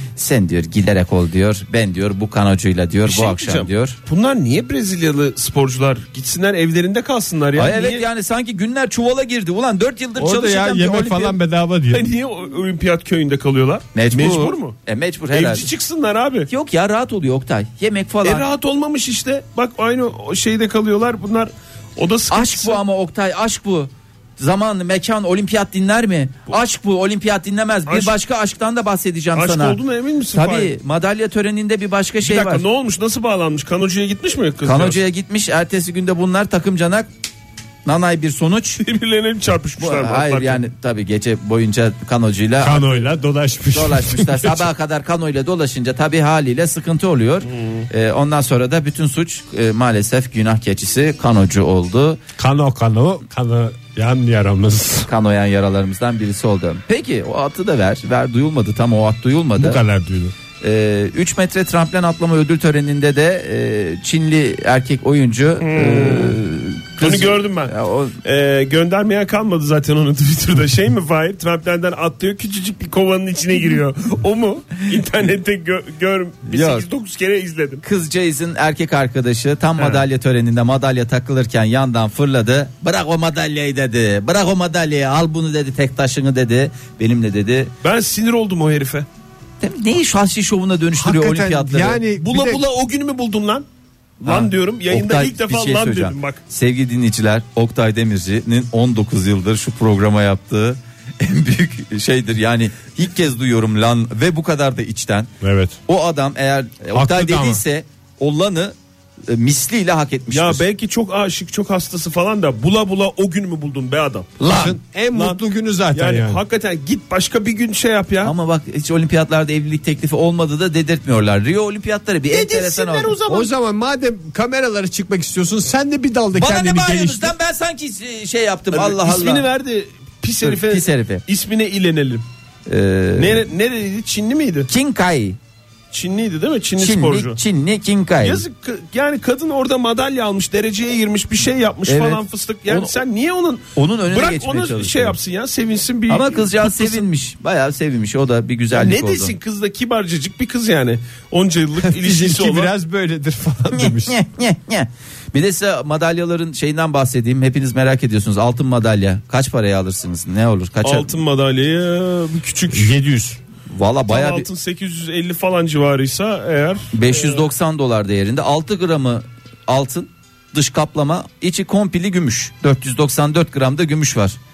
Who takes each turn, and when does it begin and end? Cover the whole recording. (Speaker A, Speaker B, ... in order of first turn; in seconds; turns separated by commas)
Speaker A: 0.1-4.0, Speaker B: 3.0-8.0, Speaker A: 7.5-11.4, Speaker C: 10.2-12.1, Speaker B: 11.9-14.8, Speaker A: 13.9-15.7, Speaker B: 15.3-16.5, Speaker A: 16.5-18.5, Speaker B: 18.2-22.8, Speaker A: 22.3-29.8, Speaker B: 27.9-28.1, Speaker B: 29.3-30.7, Speaker A: 30.3-32.6, Speaker B: 32.2-35.0, Speaker A: 34.6-37.1, Speaker A: 37.8-38.8, Speaker B: 38.8-40.6, Speaker A: 39.8-43.1, Speaker C: 42.6-44.6, Speaker A: 43.7-52.2, Speaker B: 47.5-47.9, Speaker C: 52.4-55.1, Speaker A: 55.1-59.8, Speaker C: 59.6-60.3, Speaker A: 60.6-68.2, Speaker B: 65.6-66.4, Speaker B: 67.0-77.8, Speaker A: 76.5-76.8, Speaker A: 77.8-87.7, Speaker B: 79.8-80.0, Speaker B: 87.8-89.1, Speaker A: 89.6-92.0, Speaker C: 91.0-92.6, Speaker B: 92.2-93.7, Speaker B: 94.2-96.4, Speaker A: 94.2-105.3, Speaker C: 105.4-105.8, Speaker A: 105.9-108.7, Speaker C: 106.9-107.6, Speaker A: 109.3-110.6, Speaker B: 110.3-118.3, Speaker C: 114.4-116.4, Speaker A: 118.2-123.2, Speaker B: 122.3-123.5, Speaker C: 123.3-127.3, Speaker A: 126.3-129.5, Speaker B: 128.7-132.2, Speaker A: 130.4-131.2, Speaker A: 132.7-133.4, Speaker B: 133.2-134.7, Speaker A: 134.7-135.4, Speaker B: 135.9-137.4, Speaker A: 136.8-138.4, Speaker B: 138.2-147.1, Speaker A: 141.9-143.0, Speaker A: 143.7-145.2, Speaker A: 146.1-149.3, Speaker B: 148.7-152.7, Speaker C: 151.8-154.2, Speaker A: 153.7-161.1, Speaker B: 160.8-163.0, Speaker C: 162.7-163.4, Speaker A: 163.7-164.5, Speaker B: 164.1-167.5, Speaker A: 166.9-174.3